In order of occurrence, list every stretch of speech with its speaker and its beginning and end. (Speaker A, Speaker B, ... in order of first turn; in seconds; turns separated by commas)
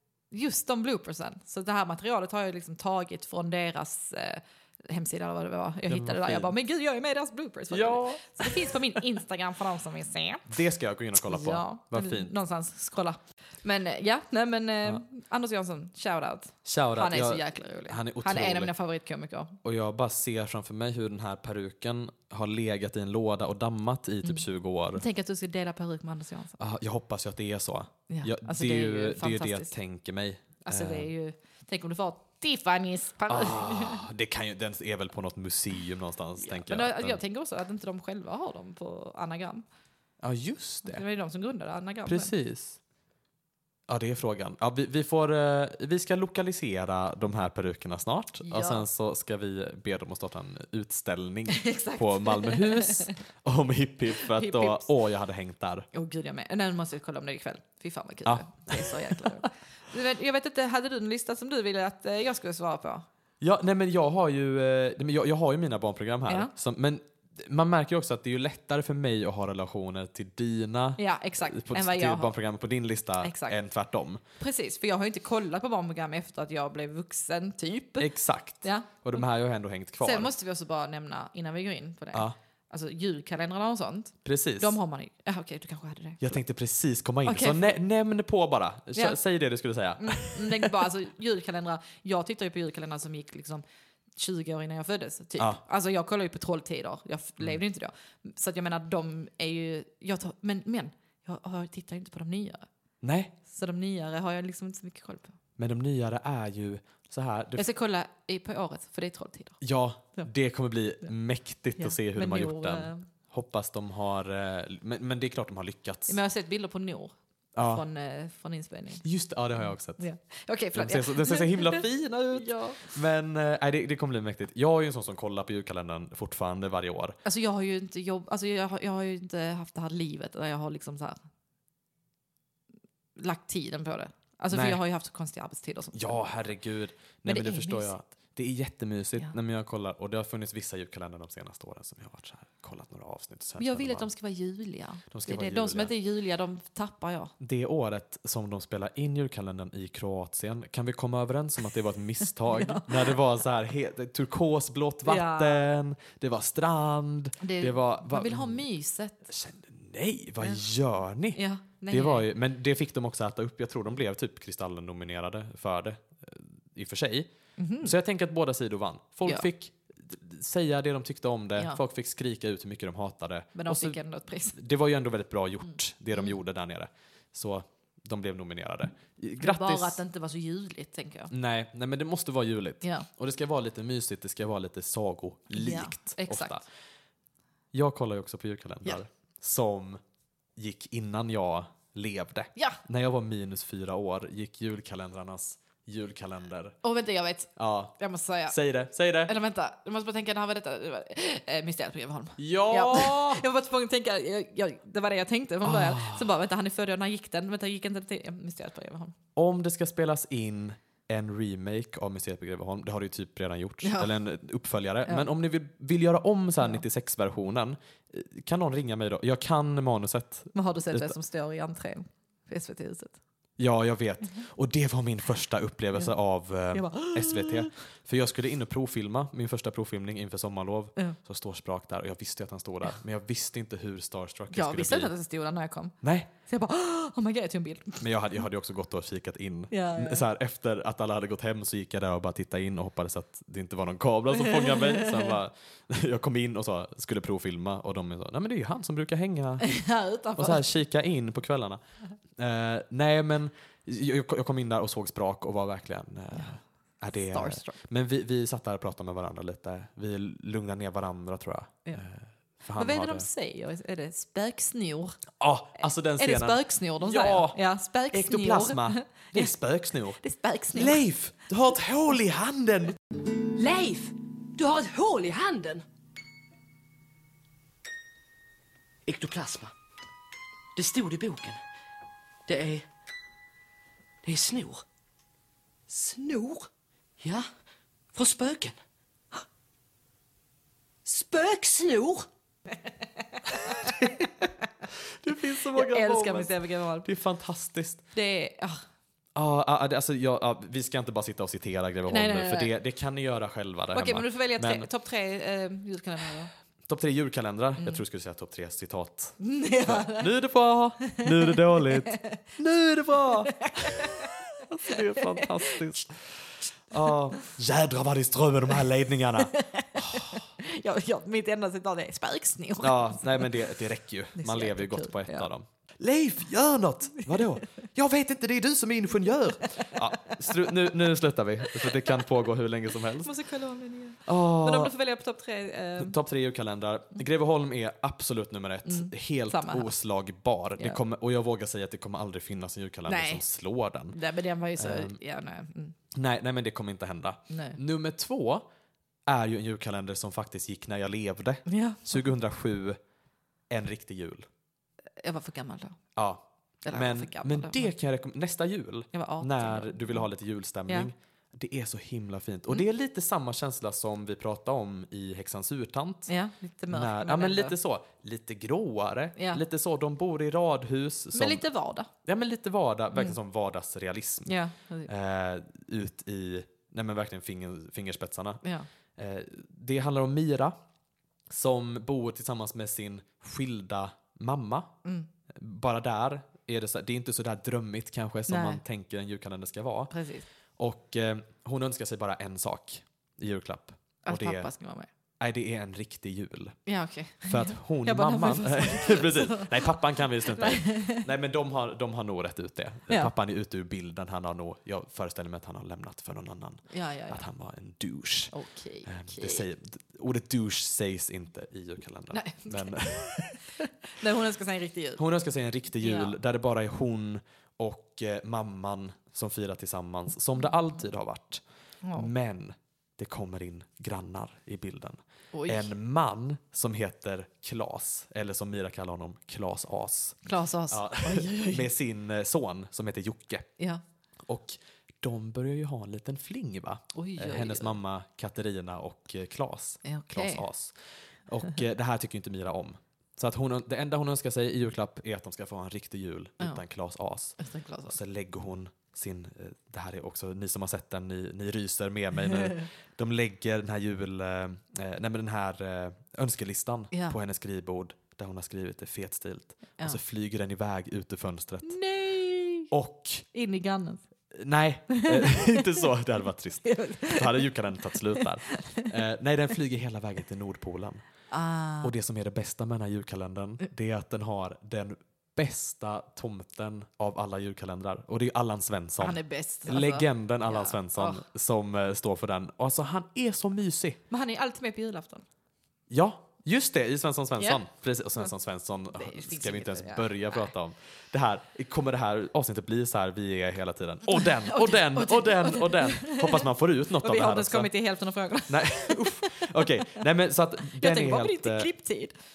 Speaker A: 0.3-10.5, Speaker B: 5.9-6.5, Speaker B: 7.7-8.7, Speaker B: 10.5-12.3, Speaker A: 11.2-19.6, Speaker B: 16.6-18.7, Speaker B: 19.6-25.0, Speaker A: 24.2-26.6, Speaker B: 26.6-31.1, Speaker A: 28.1-29.7, Speaker A: 30.6-34.0, Speaker B: 33.3-37.2, Speaker A: 36.4-39.6, Speaker B: 40.2-41.0, Speaker A: 40.9-42.3, Speaker B: 42.0-42.8, Speaker B: 43.9-55.9, Speaker A: 48.4-48.9, Speaker A: 51.5-53.1, Speaker A: 54.1-54.9, Speaker A: 55.9-63.1, Speaker B: 58.2-59.3, Speaker B: 63.4-74.2, Speaker A: 66.3-66.5, Speaker A: 71.0-72.3, Speaker A: 73.2-73.6, Speaker A: 74.4-79.2, Speaker B: 78.0-80.3, Speaker A: 80.0-86.4, Speaker B: 84.2-84.8, Speaker B: 86.2-90.8, Speaker A: 87.2-87.8, Speaker A: 90.0-93.6, Speaker A: 94.1-102.7, Speaker B: 103.0-103.3, Speaker A: 103.5-105.4, Speaker B: 105.6-107.7, Speaker A: 107.5-109.6, Speaker B: 109.6-116.2, Speaker A: 111.8-113.0, Speaker A: 116.1-119.0, Speaker B: 117.5-117.8, Speaker B: 119.0-120.0, Speaker A: 119.7-123.0, Speaker B: 120.7-127.2, Speaker A: 127.2-131.2, Speaker A: 133.2-136.3, Speaker B: 134.5-134.8, Speaker B: 135.9-144.1, Speaker A: 137.2-137.9, Speaker A: 143.6-147.3, Speaker B: 145.1-145.9, Speaker B: 147.4-158.6, Speaker A: 152.4-153.2, Speaker A: 155.0-155.7, Speaker A: 157.4-159.2, Speaker B: 159.3-167.3, Speaker A: 161.3-162.3, Speaker A: 167.6-167.9, Speaker B: 167.8-174.0, Speaker A: 173.5-174.6, Speaker B: 174.5-180.0, Speaker A: 175.6-176.4, Speaker A: 179.4-181.3, Speaker B: 181.3-186.6, Speaker A: 182.8-183.1, Speaker A: 185.5-186.6, Speaker B: 187.7-190.0, Speaker B: 190.6-196.8, Speaker A: 196.8-198.6, Speaker B: 197.6-198.0, Speaker B: 198.5-199.3, Speaker A: 199.2-209.1, Speaker B: 202.4-203.4, Speaker B: 205.6-206.3, Speaker B: 209.4-221.1, Speaker A: 213.8-214.1, Speaker A: 220.5-223.2, Speaker B: 223.6-235.1, Speaker A: 226.7-227.7, Speaker A: 234.5-238.4, Speaker B: 236.0-236.3, Speaker B: 238.0-249.8, Speaker A: 239.7-240.2, Speaker A: 244.3-245.4, Speaker A: 249.6-250.7, Speaker B: 250.4-251.8, Speaker B: 252.4-263.3, Speaker A: 257.1-257.8, Speaker A: 262.7-265.2, Speaker B: 265.4-267.6, Speaker A: 265.8-269.5, Speaker B: 268.1-270.2, Speaker A: 270.2-271.0, Speaker B: 270.7-272.9, Speaker C: 273.3-275.8, Speaker C: 279.1-279.7, Speaker C: 280.8-281.6, Speaker C: 282.5-282.9, Speaker C: 284.2-284.8, Speaker C: 285.9-286.7, Speaker C: 287.2-287.5, Speaker C: 288.1-288.8, Speaker C: 291.0-292.2, Speaker A: 293.3-294.0, Speaker B: 293.7-294.3, Speaker B: 295.2-298.0, Speaker A: 295.7-297.1, Speaker A: 298.1-298.8, Speaker B: 299.4-304.9, Speaker A: 302.1-302.7, Speaker A: 303.9-306.5, Speaker B: 306.9-316.2, Speaker A: 307.8-308.0, Speaker A: 309.4-310.3, Speaker A: 311.1-312.4, Speaker A: 313.3-314.3, Speaker A: 314.9-315.9, Speaker B: 316.9-320.4, Speaker A: 319.4-323.6, Speaker B: 322.8-333.3, Speaker A: 324.4-325.5, Speaker A: 329.8-330.6, Speaker A: 331.8-332.2, Speaker A: 333.2-336.1, Speaker B: 334.2-334.9, Speaker B: 336.0-344.2, Speaker A: 338.9-339.9, Speaker A: 343.1-343.4, Speaker A: 344.1-345.9, Speaker B: 344.8-345.2, Speaker B: 346.1-348.6, Speaker A: 347.5-347.8, Speaker B: 349.2-353.0, Speaker A: 351.7-352.2, Speaker B: 353.7-354.5, Speaker A: 355.2-356.0, Speaker B: 356.1-366.3, Speaker A: 356.8-357.9, Speaker A: 359.1-360.3, Speaker A: 366.3-367.8, Speaker B: 366.9-371.6, Speaker A: 369.4-369.6, Speaker A: 371.3-372.1, Speaker B: 372.2-374.5, Speaker A: 373.1-373.4, Speaker A: 374.4-375.1, Speaker B: 375.1-378.6, Speaker B: 379.2-380.8, Speaker B: 381.5-384.9, Speaker A: 385.0-385.3, Speaker B: 385.5-390.1, Speaker A: 388.5-388.8, Speaker A: 390.1-390.4, Speaker B: 390.8-394.7, Speaker A: 394.2-395.1, Speaker B: 395.4-396.8, Speaker A: 396.9-401.3, Speaker B: 397.4-408.5, Speaker A: 406.9-407.4, Speaker A: 408.5-409.6, Speaker B: 409.0-413.6, Speaker A: 412.3-413.6, Speaker A: 414.1-415.2, Speaker B: 415.2-421.6, Speaker A: 416.0-416.4, Speaker A: 422.0-422.3, Speaker B: 422.1-430.4, Speaker A: 425.5-425.9, Speaker A: 430.4-431.9, Speaker B: 430.9-433.7, Speaker B: 434.4-440.9, Speaker A: 437.1-438.0, Speaker A: 440.0-440.6, Speaker B: 441.5-462.0, Speaker A: 447.6-448.1, Speaker A: 452.5-452.8, Speaker A: 457.1-457.4, Speaker A: 461.8-462.9, Speaker B: 462.9-463.5, Speaker A: 463.5-464.2, Speaker B: 464.5-471.2, Speaker A: 465.1-466.1, Speaker A: 466.8-469.0, Speaker A: 471.5-472.1, Speaker B: 472.0-484.2, Speaker A: 479.2-481.4, Speaker A: 484.3-485.4, Speaker B: 486.1-497.9, Speaker A: 487.6-487.8, Speaker A: 489.1-490.7, Speaker A: 494.3-500.2, Speaker B: 498.7-501.9, Speaker A: 500.9-502.4